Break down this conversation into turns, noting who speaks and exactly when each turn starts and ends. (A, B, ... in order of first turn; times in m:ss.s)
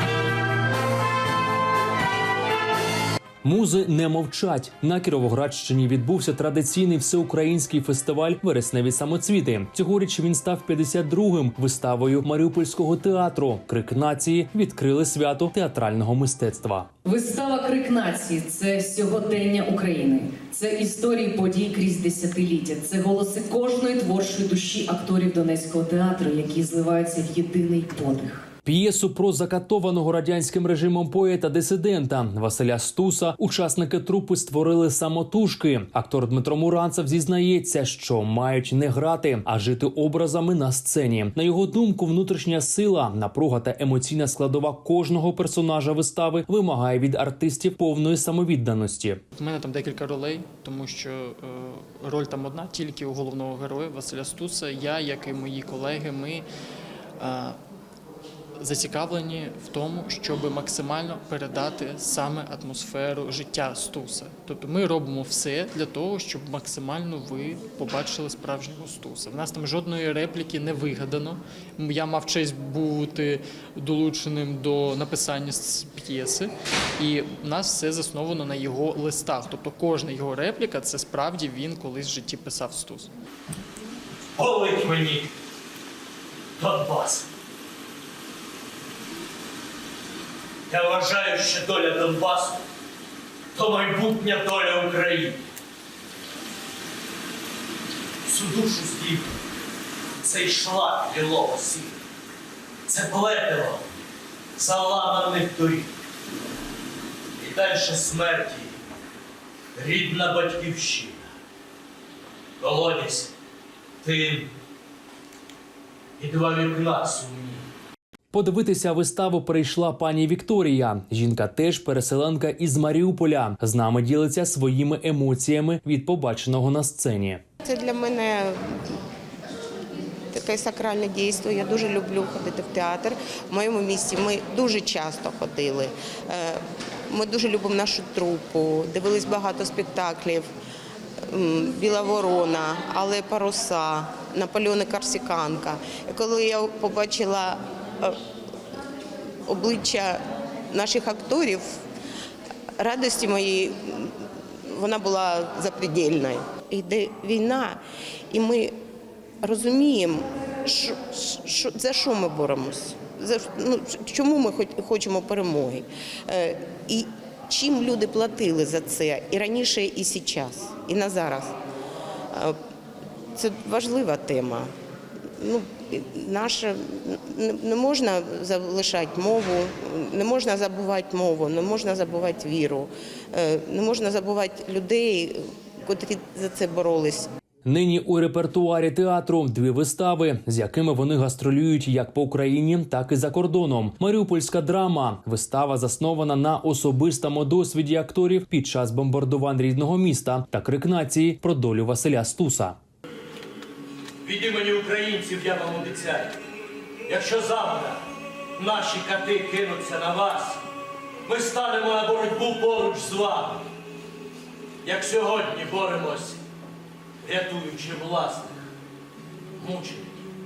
0:03.4-0:16.9 A
0:17.0-0:28.5 B
0:28.6-0:49.2 A
0:49.4-0:56.4 C
0:57.2-0:57.6 C
0:58.6-1:23.1 C
1:24.4-1:25.3 D
1:26.6-1:27.2 D
1:30.7-1:32.6 D
1:33.6-1:35.4 D
1:38.2-1:39.3 D
1:40.2-1:42.0 D
1:42.9-1:43.9 D
1:44.6-1:45.9 D
1:47.4-1:48.7 D
1:49.8-1:51.2 D
1:52.6-1:53.3 D
1:54.0-1:54.5 D
1:56.2-1:57.6 D
1:58.3-2:07.4 A
2:07.6-2:08.9 E
2:10.3-2:20.5 E
2:21.3-2:28.2 E
2:29.5-2:30.2 E
2:30.7-2:31.6 E
2:32.8-2:34.1 E
2:34.7-2:37.8 E
2:38.3-2:38.7 E
2:39.4-2:51.5 E
2:53.4-2:54.7 E
2:55.4-3:07.3 E
3:07.6-3:22.8 A
3:24.2-3:26.3 D
3:27.1-3:28.0 D
3:28.6-3:30.6 D
3:31.3-3:33.7 D
3:34.8-3:36.4 D
3:37.2-3:38.7 D
3:39.6-3:40.2 D